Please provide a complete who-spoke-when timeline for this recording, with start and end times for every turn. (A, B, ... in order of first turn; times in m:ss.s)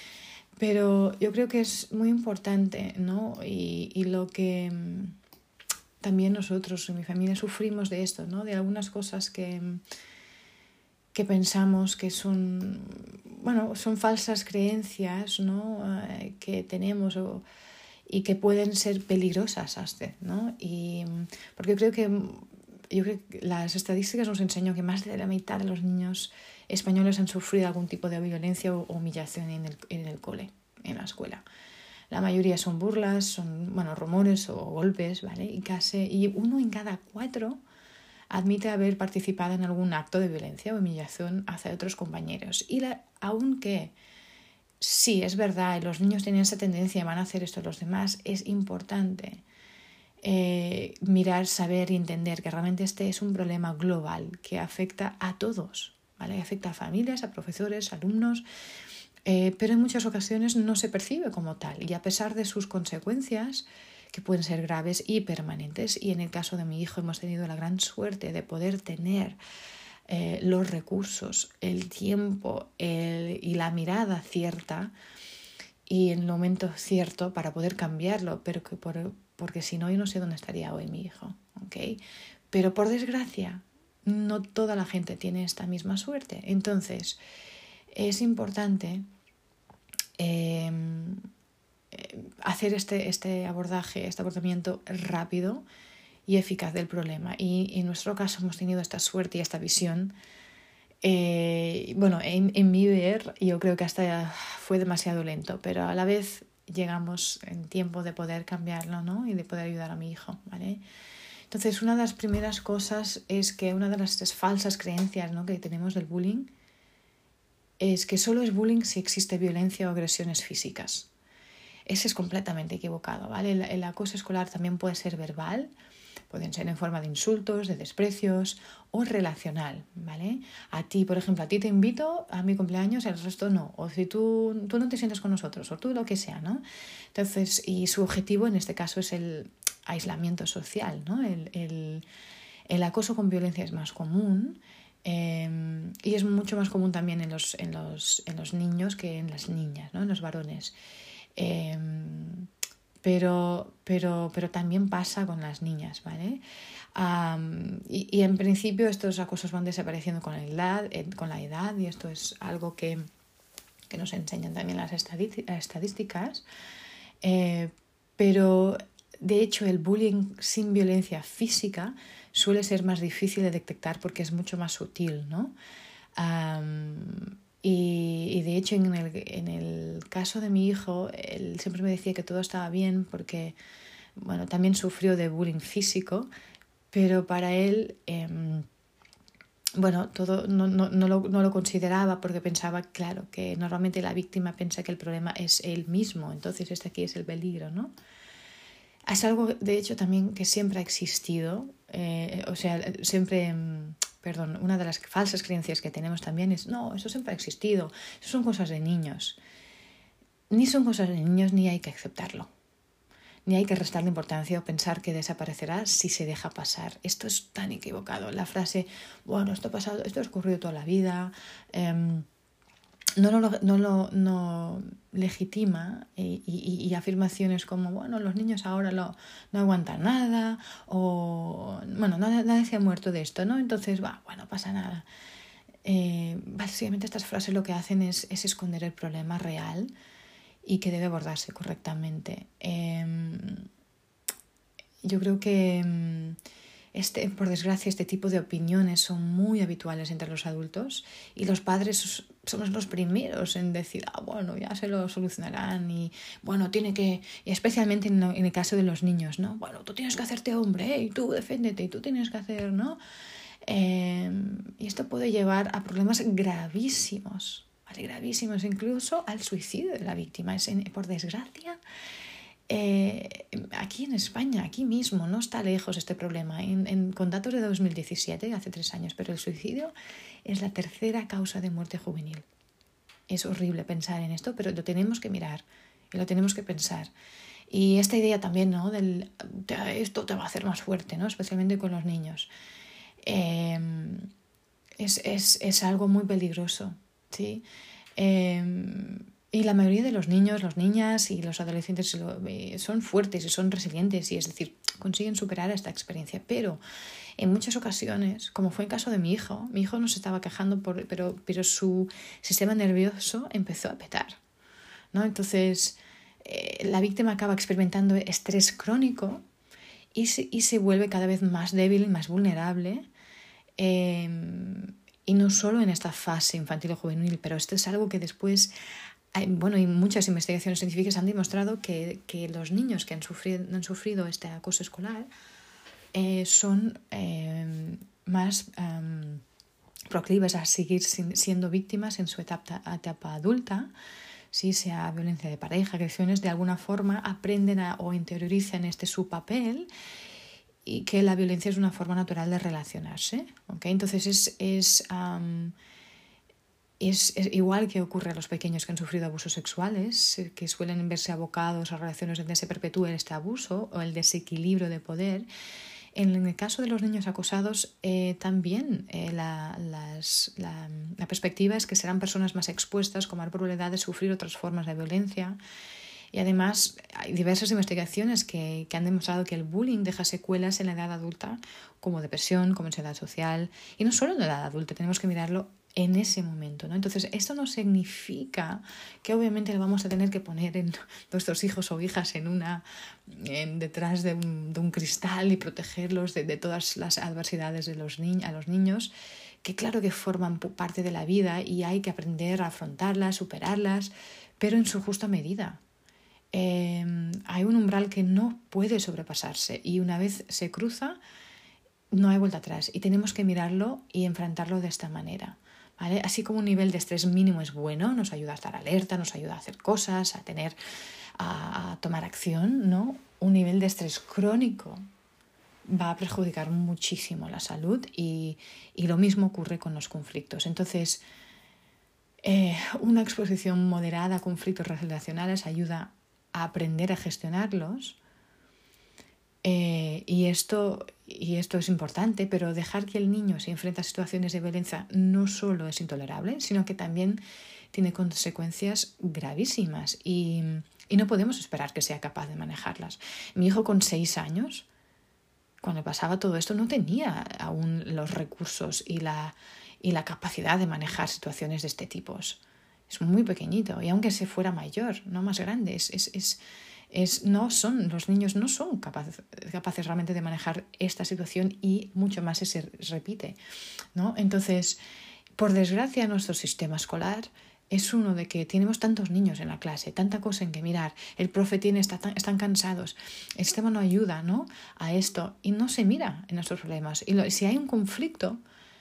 0:00.6-0:05.2 A
0:06.0-0:09.8 A
0:11.1-0:17.4 A
0:18.1-0:31.4 A
0:32.1-0:37.6 A
0:38.3-0:43.9 A
0:44.8-0:49.4 A
0:50.2-0:58.4 A
0:59.3-1:09.4 A
1:10.1-1:14.9 A
1:15.9-1:22.0 A
1:22.5-1:27.2 A
1:27.9-1:29.0 A
1:30.2-1:31.3 A
1:31.9-1:35.6 A
1:36.3-1:40.1 A
1:41.0-1:50.8 A
1:51.5-1:56.5 A
1:57.8-2:01.1 A
2:01.9-2:05.7 A
2:06.3-2:22.0 A
2:22.7-2:30.8 A
2:31.4-2:32.5 A
2:33.0-2:36.4 A
2:37.0-2:43.1 A
2:43.9-2:46.4 A
2:47.2-2:55.5 A
2:56.2-3:03.6 A
3:04.2-3:06.3 A
3:06.9-3:08.7 A
3:09.8-3:17.9 A
3:19.1-3:29.4 A
3:30.5-3:32.5 A
3:33.5-3:42.3 A
3:43.2-3:55.1 A
3:55.8-3:59.9 A
4:00.6-4:03.7 A
4:05.0-4:06.4 A
4:06.9-4:23.0 A
4:23.6-4:31.8 A
4:32.7-4:39.9 A
4:40.4-4:42.4 A
4:43.3-4:47.1 A
4:47.7-4:52.5 A
4:53.2-4:54.3 A
4:55.0-4:57.6 A
4:58.2-5:06.8 A
5:07.4-5:14.4 A
5:15.1-5:19.4 A
5:20.1-5:23.1 A
5:23.8-5:28.7 A
5:29.3-5:35.3 A
5:36.1-5:39.4 A
5:40.1-5:43.9 A
5:44.5-5:49.9 A
5:50.8-5:55.8 A
5:57.0-6:05.5 A
6:06.2-6:15.6 A
6:16.3-6:39.1 A
6:39.6-6:45.8 A
6:46.5-6:51.2 A
6:52.1-7:00.8 A
7:01.4-7:05.0 A
7:05.9-7:11.2 A
7:12.4-7:18.2 A
7:19.6-7:27.4 A
7:27.9-7:34.9 A
7:35.8-7:46.6 A
7:47.1-7:53.6 A
7:54.2-7:55.0 A
7:55.6-8:08.6 A